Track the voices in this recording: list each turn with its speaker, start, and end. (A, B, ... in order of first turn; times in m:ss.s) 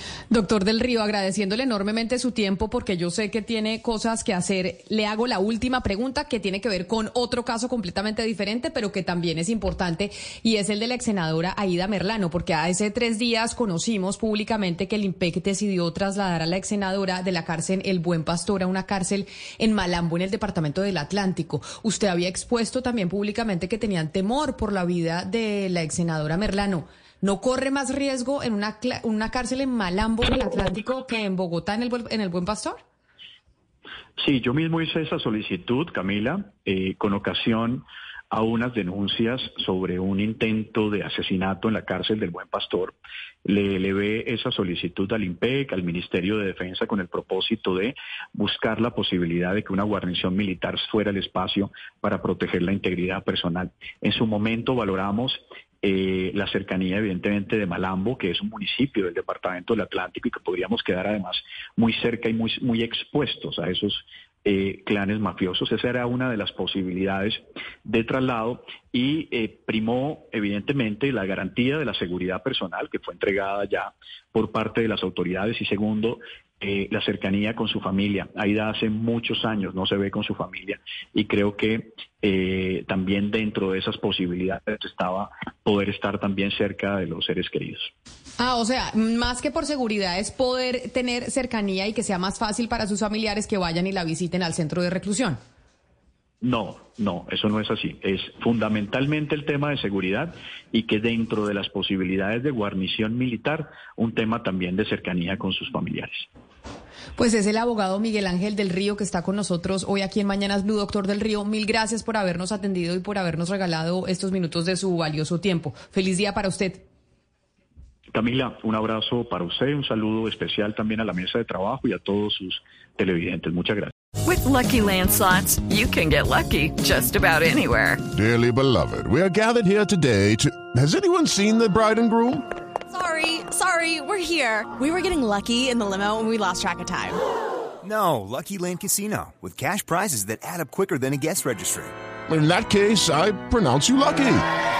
0:00.3-0:32.8 A
0:34.2-1:27.9 B
1:28.4-1:35.4 A
1:36.4-1:46.3 B
1:47.2-1:56.8 A
1:58.1-2:03.9 B
2:04.2-2:08.0 C
2:08.1-2:12.5 D
2:12.9-2:17.2 E
2:17.8-2:21.9 F
2:22.3-2:24.4 D